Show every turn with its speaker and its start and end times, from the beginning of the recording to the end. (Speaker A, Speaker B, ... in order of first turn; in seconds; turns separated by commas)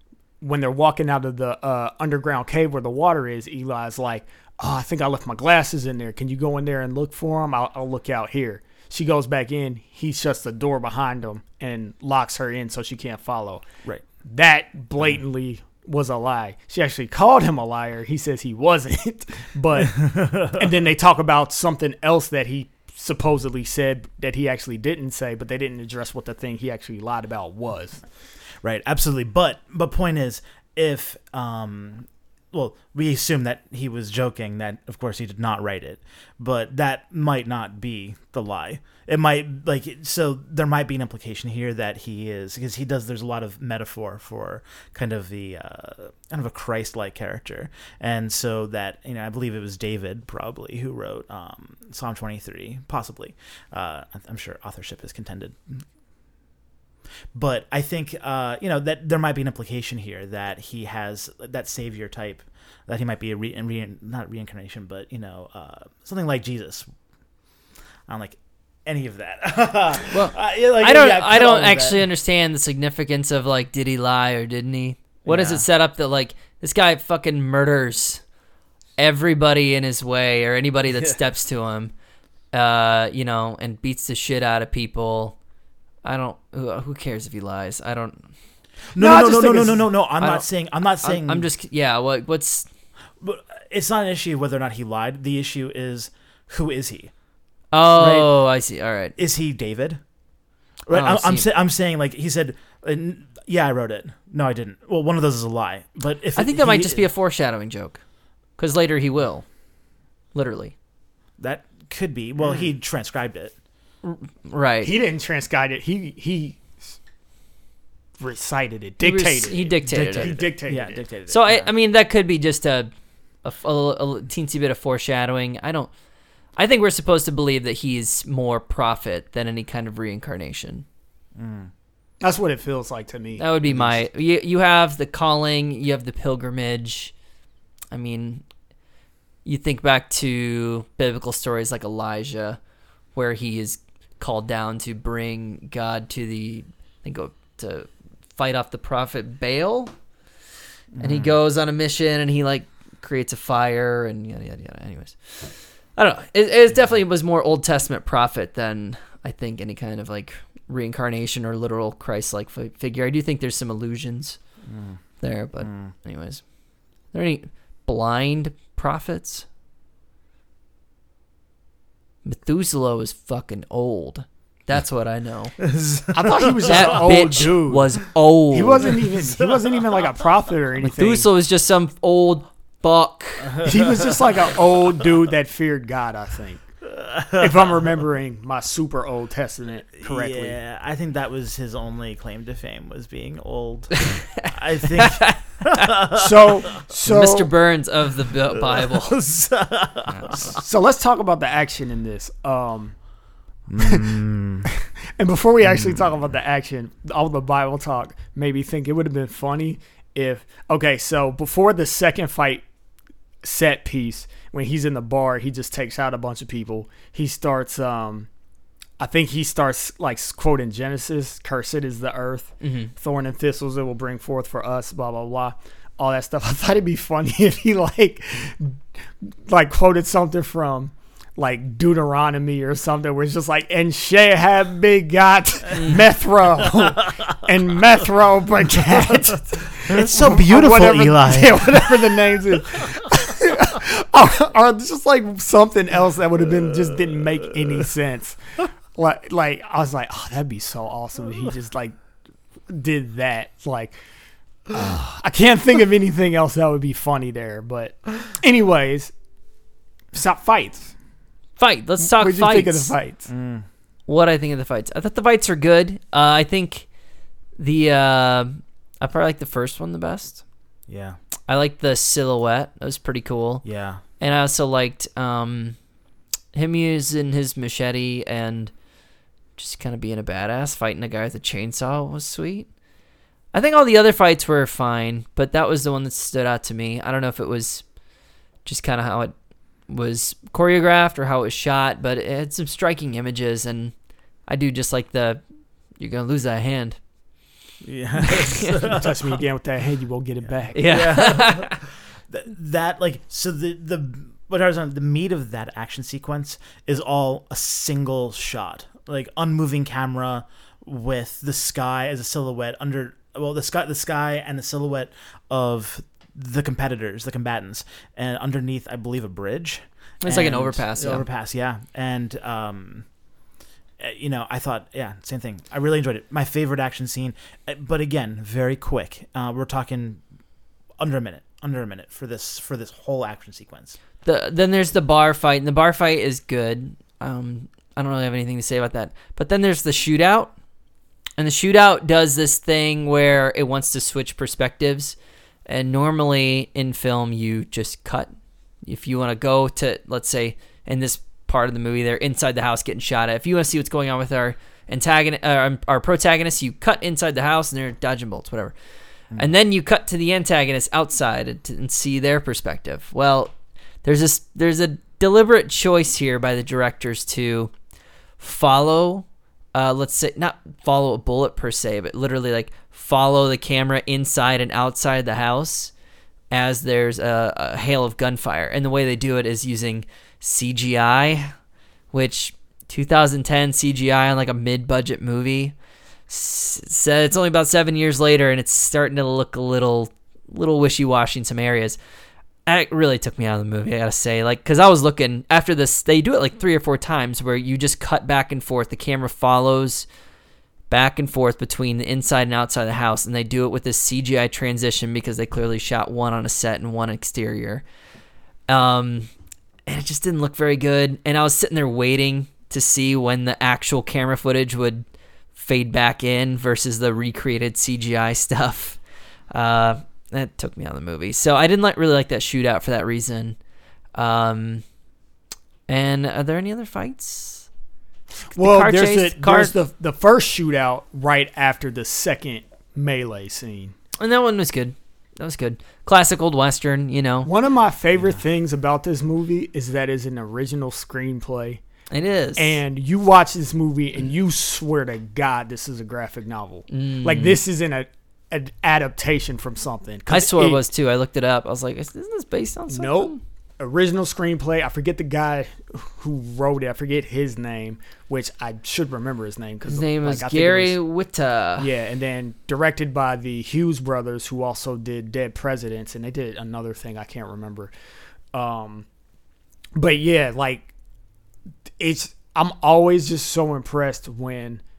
Speaker A: 0.4-13.6, Speaker A: 14.2-28.0, Speaker B: 19.8-20.7, Speaker B: 28.6-55.8, Speaker B: 57.3-66.9, Speaker B: 68.1-72.0, Speaker C: 70.1-78.2, Speaker B: 75.2-75.6, Speaker C: 79.0-81.9, Speaker C: 82.5-85.4, Speaker C: 86.0-88.3, Speaker B: 88.9-91.5, Speaker A: 89.0-89.8, Speaker C: 90.2-90.5, Speaker C: 91.0-92.7, Speaker B: 93.2-97.1, Speaker C: 97.7-99.1, Speaker B: 97.9-98.3, Speaker B: 99.2-100.0, Speaker B: 100.9-107.0, Speaker C: 100.9-101.5, Speaker C: 106.3-108.0, Speaker C: 108.6-109.5, Speaker C: 110.3-110.7, Speaker B: 111.4-113.5, Speaker C: 114.0-114.9, Speaker A: 114.8-116.9, Speaker A: 118.2-121.0, Speaker C: 119.0-120.4, Speaker B: 119.9-121.7, Speaker C: 121.3-122.9, Speaker C: 123.4-125.9, Speaker C: 126.5-130.8, Speaker B: 131.3-131.7, Speaker A: 132.2-133.9, Speaker C: 133.4-137.1, Speaker C: 137.9-138.4, Speaker C: 139.4-142.6, Speaker C: 143.1-149.9, Speaker B: 150.9-151.3, Speaker C: 151.0-164.4, Speaker B: 164.7-165.0, Speaker C: 165.2-166.4, Speaker B: 165.6-165.9, Speaker C: 167.1-169.4, Speaker C: 172.2-175.5, Speaker B: 175.6-177.3, Speaker A: 176.1-177.9, Speaker C: 176.7-179.0, Speaker A: 178.5-181.2, Speaker B: 179.2-180.0, Speaker C: 180.8-183.7, Speaker B: 183.4-183.9, Speaker A: 183.6-186.6, Speaker B: 186.9-187.7, Speaker A: 187.4-190.6, Speaker B: 190.0-196.7, Speaker C: 194.0-195.8, Speaker A: 196.2-197.5, Speaker C: 197.1-199.2, Speaker B: 198.5-200.6, Speaker C: 200.1-200.5, Speaker A: 200.4-202.9, Speaker B: 203.7-204.7, Speaker A: 203.8-204.1, Speaker A: 204.8-212.6, Speaker B: 205.6-206.1, Speaker A: 213.4-218.3, Speaker A: 219.0-251.9, Speaker C: 222.6-222.9, Speaker B: 239.8-242.2, Speaker A: 252.7-254.0, Speaker A: 254.7-259.1, Speaker B: 254.7-255.0, Speaker A: 260.1-260.9, Speaker C: 261.6-262.9, Speaker A: 262.1-263.3, Speaker B: 263.3-263.6, Speaker C: 264.1-266.9, Speaker C: 267.6-270.4, Speaker B: 270.9-271.2, Speaker C: 271.5-273.6, Speaker B: 273.6-274.0, Speaker C: 274.2-275.8, Speaker C: 276.5-278.7, Speaker C: 279.6-282.7, Speaker C: 283.5-287.8, Speaker C: 288.6-289.3, Speaker C: 289.9-293.9, Speaker C: 294.5-295.4, Speaker C: 296.0-297.0, Speaker B: 297.8-299.1, Speaker C: 298.3-299.0, Speaker A: 298.9-301.0, Speaker C: 300.7-301.7, Speaker B: 300.8-323.1, Speaker C: 320.2-321.2, Speaker B: 324.0-330.2, Speaker B: 331.0-334.0, Speaker C: 334.2-340.5, Speaker C: 341.4-348.3, Speaker C: 348.8-358.7, Speaker C: 359.4-367.7, Speaker C: 368.4-375.9, Speaker C: 376.5-381.5, Speaker C: 382.1-385.7, Speaker C: 386.3-392.0, Speaker C: 392.6-400.1, Speaker C: 400.9-407.8, Speaker C: 408.7-409.3, Speaker C: 409.9-419.0, Speaker C: 419.5-423.6, Speaker C: 424.1-424.8, Speaker C: 425.9-427.7, Speaker A: 428.4-433.9, Speaker C: 428.5-429.7, Speaker C: 434.2-437.5, Speaker A: 437.4-441.8, Speaker C: 442.1-442.8, Speaker A: 442.6-450.8, Speaker C: 446.9-447.6, Speaker C: 450.3-453.4, Speaker A: 452.9-460.9, Speaker C: 459.9-461.9, Speaker A: 461.8-467.9, Speaker A: 468.5-469.1, Speaker A: 469.9-470.9, Speaker A: 472.0-474.8